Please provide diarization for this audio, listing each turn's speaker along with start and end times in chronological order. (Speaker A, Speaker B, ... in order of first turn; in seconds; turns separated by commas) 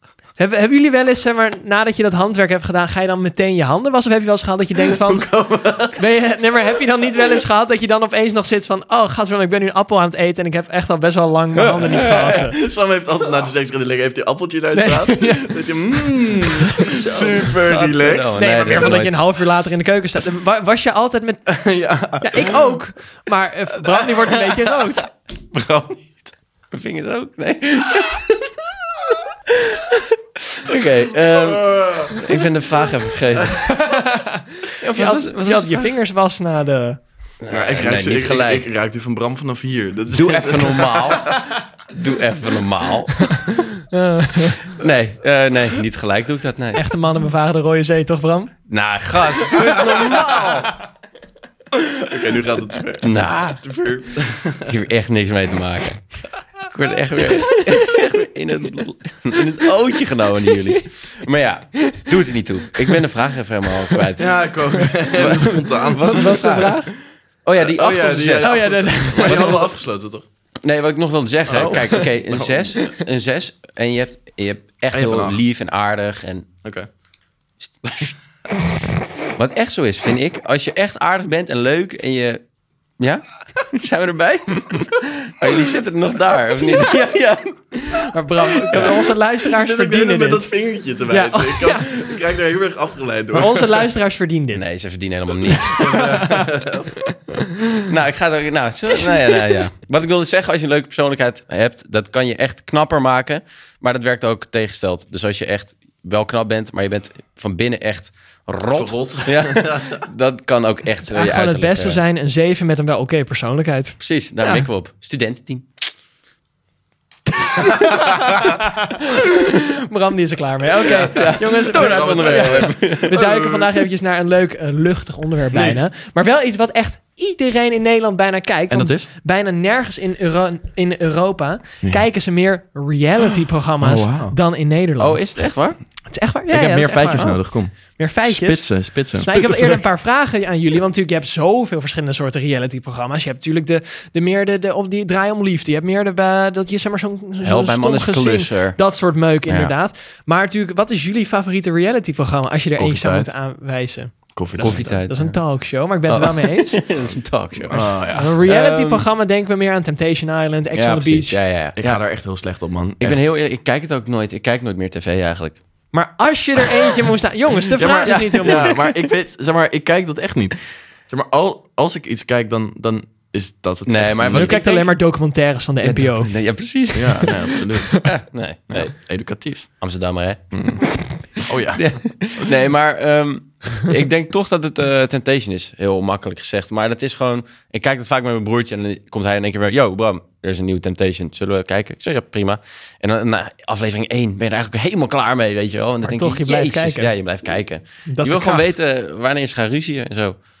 Speaker A: 0.4-5.3, Speaker B: 4.8-6.0, Speaker A: 5.9-12.6, Speaker C: 11.8-12.4, Speaker B: 12.3-18.4, Speaker A: 14.7-15.6, Speaker C: 16.8-19.3, Speaker A: 18.3-21.6, Speaker B: 21.5-22.6, Speaker A: 22.2-25.1, Speaker B: 23.9-24.7, Speaker B: 25.5-26.3, Speaker C: 26.7-28.5, Speaker C: 29.5-33.8, Speaker B: 31.4-32.2, Speaker A: 33.7-37.0, Speaker C: 34.9-35.8, Speaker C: 37.4-38.7, Speaker B: 37.5-41.4, Speaker C: 40.1-43.3, Speaker A: 43.6-44.6, Speaker C: 44.6-46.8, Speaker A: 46.7-48.5, Speaker C: 48.7-50.7, Speaker B: 49.7-50.6, Speaker B: 51.9-54.7, Speaker C: 53.0-53.6, Speaker C: 54.6-56.0, Speaker C: 56.7-64.4, Speaker A: 61.9-62.1, Speaker B: 64.2-66.9, Speaker C: 65.1-66.5, Speaker A: 66.0-66.9, Speaker C: 67.4-69.7, Speaker B: 67.6-70.2, Speaker A: 68.4-69.7, Speaker C: 70.6-76.5, Speaker B: 71.5-72.8, Speaker A: 71.6-72.0, Speaker B: 74.9-75.4, Speaker B: 77.9-78.1, Speaker C: 79.3-82.4, Speaker C: 83.0-88.1, Speaker A: 88.1-90.5, Speaker C: 88.6-89.1, Speaker B: 88.7-93.9, Speaker A: 91.1-92.1, Speaker A: 93.3-94.7, Speaker C: 94.5-96.0, Speaker A: 95.5-96.4, Speaker B: 95.8-97.0, Speaker C: 97.8-112.0, Speaker B: 108.7-110.0, Speaker A: 111.0-114.7, Speaker C: 114.0-115.7, Speaker A: 117.4-135.3, Speaker B: 117.8-118.5, Speaker C: 120.8-123.2, Speaker B: 121.1-123.6, Speaker B: 125.5-125.8, Speaker B: 128.7-129.1, Speaker B: 133.8-134.3, Speaker C: 135.0-135.8, Speaker A: 136.1-156.8, Speaker B: 136.5-139.8, Speaker C: 147.4-148.8, Speaker C: 149.5-149.7, Speaker B: 152.8-153.3, Speaker B: 154.3-154.9, Speaker C: 154.6-155.4, Speaker C: 156.1-159.1, Speaker B: 157.7-158.3, Speaker A: 158.1-161.4, Speaker C: 160.7-162.0, Speaker B: 161.8-163.3, Speaker C: 163.0-165.6, Speaker A: 165.9-168.8, Speaker B: 167.8-174.6, Speaker C: 168.0-168.9, Speaker C: 173.8-174.9, Speaker A: 174.3-176.3, Speaker C: 175.8-178.9, Speaker B: 176.9-178.0, Speaker B: 178.7-179.7, Speaker C: 179.8-180.7, Speaker B: 180.5-181.9, Speaker C: 181.7-200.4, Speaker A: 196.0-197.1, Speaker A: 198.1-198.7